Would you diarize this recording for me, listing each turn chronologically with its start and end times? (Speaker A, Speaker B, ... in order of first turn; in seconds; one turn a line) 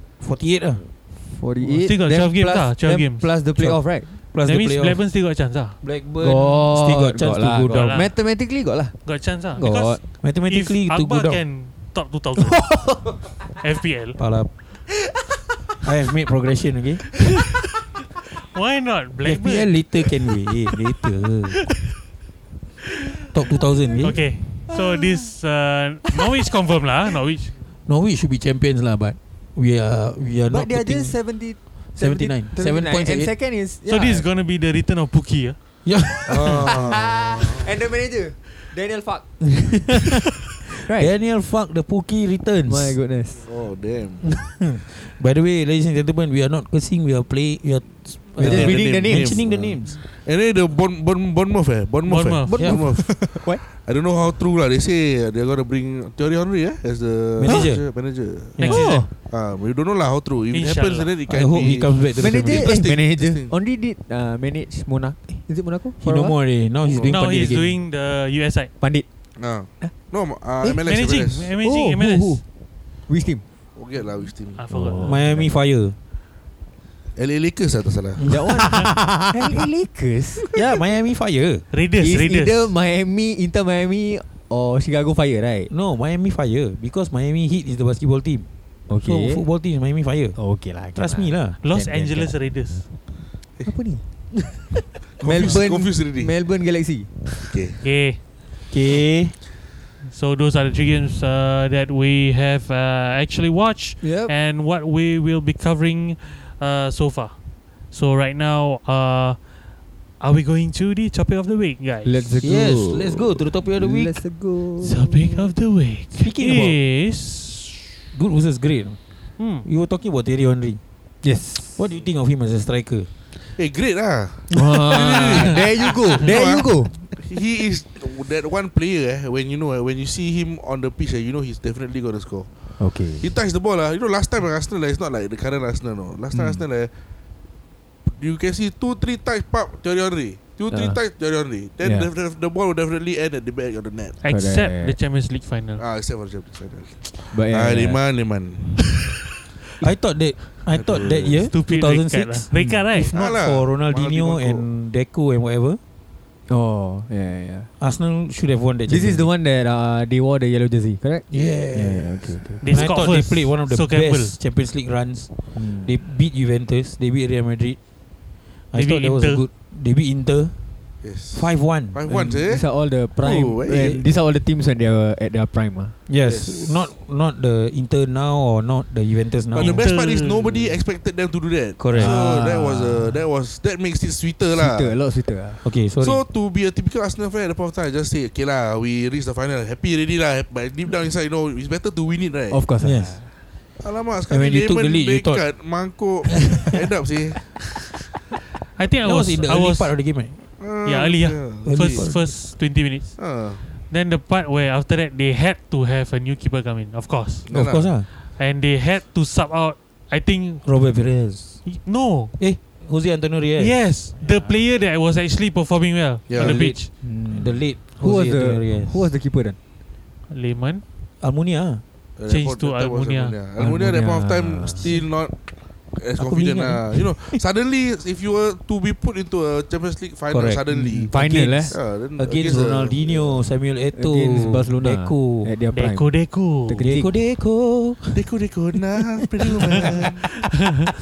Speaker A: 0.2-0.9
Speaker B: 1.1-4.1
Speaker C: 1.7-3.4
Speaker A: 3.5-5.0
Speaker C: 4.4-5.8
Speaker A: 5.8-8.0
Speaker B: 6.2-10.0
Speaker C: 7.7-8.1
Speaker C: 9.1-14.2
Speaker A: 10.2-11.4
Speaker B: 12.7-13.1
Speaker A: 14.2-14.5
Speaker A: 15.8-17.2
Speaker C: 18.4-19.9
Speaker A: 19.2-21.6
Speaker A: 23.3-24.2
Speaker C: 24.0-27.6
Speaker B: 24.7-25.3
Speaker A: 27.9-31.2
Speaker B: 30.5-34.3
Speaker A: 31.9-33.3
Speaker C: 33.9-35.6
Speaker A: 35.9-36.6
Speaker D: 36.3-37.6
Speaker B: 36.6-40.0
Speaker B: 40.8-41.1
Speaker A: 40.9-43.0
Speaker B: 42.6-43.5
Speaker D: 43.4-44.3
Speaker A: 44.2-50.0
Speaker D: 48.4-63.5
Speaker B: 48.4-49.7
Speaker C: 52.1-52.9
Speaker A: 52.5-52.8
Speaker B: 52.6-53.6
Speaker A: 57.4-57.9
Speaker C: 58.6-59.1
Speaker B: 58.6-59.1
Speaker C: 60.5-61.1
Speaker A: 61.3-62.8
Speaker B: 62.2-66.4
Speaker A: 66.0-67.8
Speaker D: 66.9-67.1
Speaker C: 67.0-68.7
Speaker B: 68.8-69.1
Speaker D: 69.4-71.5
Speaker C: 70.7-72.4
Speaker B: 71.6-72.4
Speaker B: 73.1-73.4
Speaker D: 73.8-74.7
Speaker C: 74.6-75.1
Speaker B: 74.7-75.5
Speaker A: 75.0-76.0
Speaker D: 77.2-78.4
Speaker A: 78.2-79.3
Speaker B: 78.3-80.5
Speaker A: 80.5-81.7
Speaker C: 81.7-82.7
Speaker B: 82.0-85.7
Speaker A: 85.7-88.5
Speaker B: 88.9-89.5
Speaker A: 89.0-91.6
Speaker B: 90.4-92.4
Speaker C: 91.6-92.9
Speaker B: 93.6-94.0
Speaker D: 95.2-96.3
Speaker B: 95.2-97.3
Speaker D: 97.4-97.8
Speaker C: 97.8-98.2
Speaker A: 98.7-99.4
Speaker C: 100.0-109.5
Speaker B: 104.0-104.3
Speaker C: 110.2-112.4
Speaker B: 112.0-115.5
Speaker A: 112.4-114.2
Speaker C: 114.8-117.9
Speaker A: 116.2-116.8
Speaker A: 118.1-119.0
Speaker C: 119.4-119.7
Speaker A: 119.6-120.8
Speaker B: 121.2-121.8
Speaker A: 121.8-123.1
Speaker D: 123.5-136.9
Speaker B: 124.5-127.2
Speaker B: 132.8-133.3
Speaker B: 136.3-136.7
Speaker D: 138.1-144.2
Speaker B: 140.7-141.0
Speaker B: 141.8-142.1
Speaker C: 144.2-145.8
Speaker B: 144.3-145.0
Speaker D: 145.8-149.2
Speaker B: 147.3-148.1
Speaker A: 149.8-155.8
Speaker D: 150.7-151.5
Speaker C: 151.4-153.3
Speaker D: 153.0-154.7
Speaker B: 156.5-157.7
Speaker A: 157.8-159.3
Speaker B: 158.9-162.9
Speaker A: 161.3-167.8
Speaker C: 162.6-164.4
Speaker B: 165.5-165.9
Speaker A: 168.7-170.6
Speaker C: 168.7-169.5
Speaker D: 171.0-174.0
Speaker A: 171.3-172.0
Speaker B: 172.1-176.0
Speaker A: 173.2-174.0
Speaker A: 176.1-179.8
Speaker D: 176.2-176.9
Speaker D: 179.5-185.0
Speaker C: 179.6-180.8
Speaker A: 181.8-182.2
Speaker B: 181.9-183.3
Speaker B: 184.5-185.6
Speaker A: 185.6-186.2
Speaker D: 186.0-192.6
Speaker B: 192.5-193.3
Speaker A: 192.8-193.2
Speaker D: 193.8-197.7
Speaker A: 194.3-195.6
Speaker C: 198.8-199.9
Speaker A: 199.0-200.4
Speaker D: 200.6-202.1
Speaker C: 200.8-207.5
Speaker A: 201.6-202.4
Speaker D: 203.2-203.6
Speaker D: 207.5-207.9
Speaker A: 207.5-208.1
Speaker C: 208.1-210.7
Speaker A: 210.6-211.7
Speaker C: 211.7-212.3
Speaker A: 212.4-214.5
Speaker C: 213.6-216.9
Speaker D: 216.3-216.7
Speaker A: 216.4-219.1
Speaker B: 217.0-219.6
Speaker C: 220.3-220.8
Speaker A: 221.2-221.8
Speaker D: 222.2-233.5
Speaker C: 222.3-223.4
Speaker B: 223.6-224.9
Speaker A: 226.2-227.4
Speaker A: 230.3-235.5
Speaker B: 230.7-231.8
Speaker B: 233.9-237.2
Speaker C: 235.7-236.9
Speaker A: 236.8-238.3
Speaker D: 238.1-240.2
Speaker A: 239.5-240.3